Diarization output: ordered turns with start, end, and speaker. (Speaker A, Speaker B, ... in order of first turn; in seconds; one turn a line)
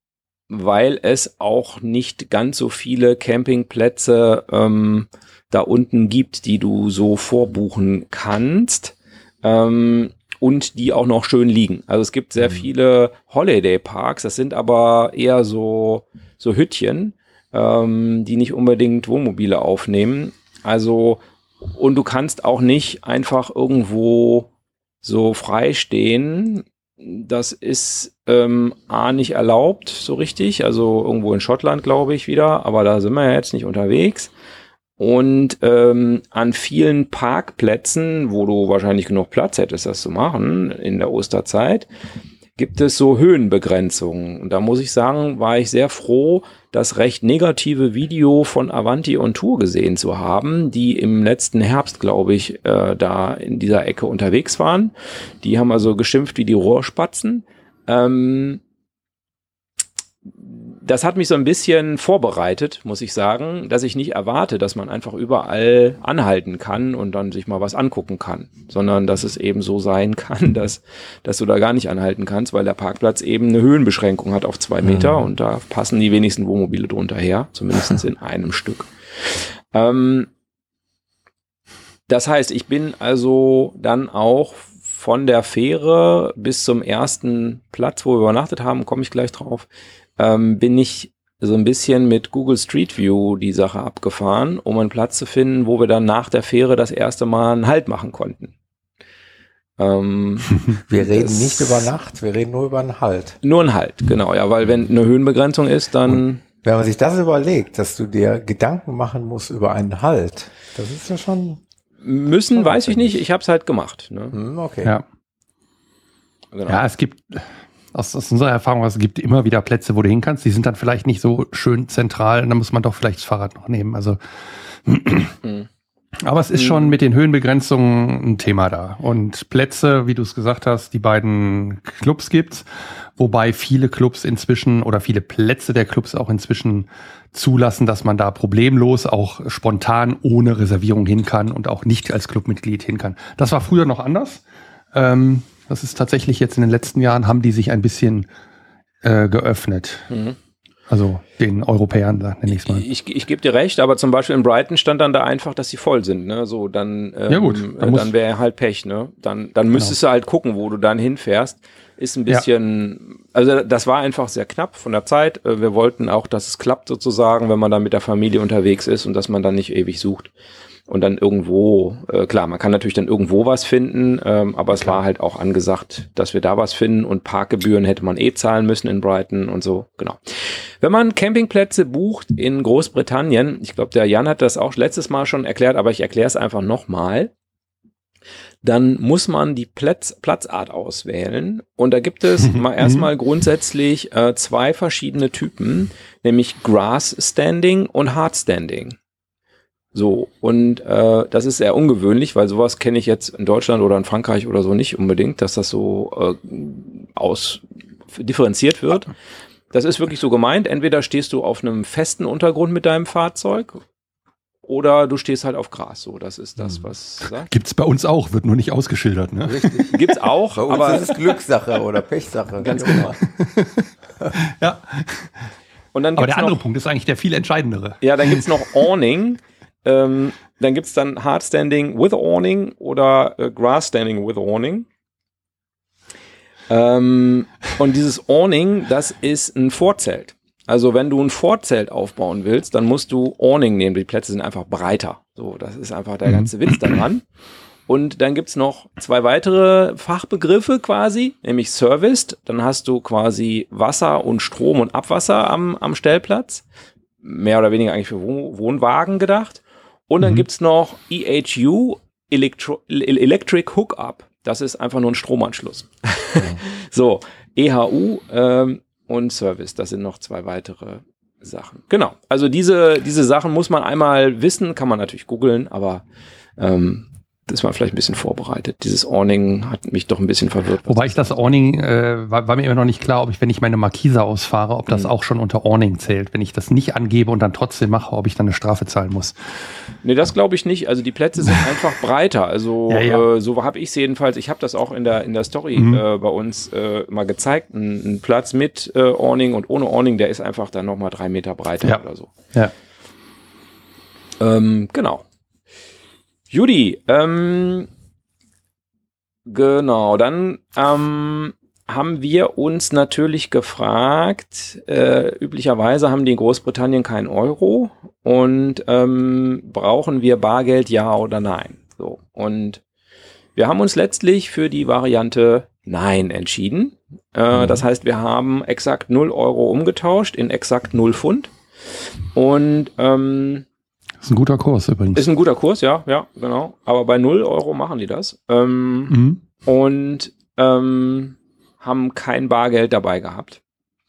Speaker A: 0.5-24.5
Speaker A: 25.0-34.3
Speaker A: 35.0-41.9
Speaker A: 42.6-58.6
Speaker A: 60.4-80.3
Speaker B: 74.9-75.2
Speaker A: 82.1-89.7
Speaker A: 90.2-98.5
Speaker A: 99.8-101.9
Speaker B: 100.9-103.4
Speaker A: 103.4-106.4
Speaker B: 106.6-111.6
Speaker A: 112.0-114.3
Speaker B: 112.5-113.2
Speaker B: 114.3-114.9
Speaker A: 116.5-116.8
Speaker C: 116.7-124.2
Speaker C: 124.8-125.4
Speaker C: 126.2-144.4
Speaker A: 126.5-126.9
Speaker C: 144.9-148.3
Speaker C: 149.0-150.1
Speaker A: 150.1-150.3
Speaker C: 150.9-152.8
Speaker A: 152.5-170.3
Speaker C: 157.3-158.1
Speaker A: 170.9-187.3
Speaker A: 188.6-199.0
Speaker C: 192.4-193.1
Speaker A: 199.9-209.1
Speaker A: 209.7-213.8
Speaker A: 214.7-217.5
Speaker C: 217.4-219.8
Speaker B: 219.4-223.2
Speaker A: 219.9-221.2
Speaker A: 222.6-223.1
Speaker C: 222.8-225.4
Speaker A: 225.9-226.6
Speaker C: 226.2-228.5
Speaker A: 228.0-234.8
Speaker A: 236.7-247.2
Speaker A: 247.9-256.6
Speaker A: 257.2-276.0
Speaker A: 276.6-281.3
Speaker C: 280.9-289.4
Speaker A: 290.0-302.3
Speaker C: 292.9-293.2
Speaker C: 295.8-296.0
Speaker A: 304.4-305.2
Speaker A: 306.5-307.9
Speaker A: 309.4-322.8
Speaker A: 323.6-331.5
Speaker A: 332.3-333.6
Speaker C: 334.2-335.3
Speaker A: 335.1-343.6
Speaker C: 339.1-339.4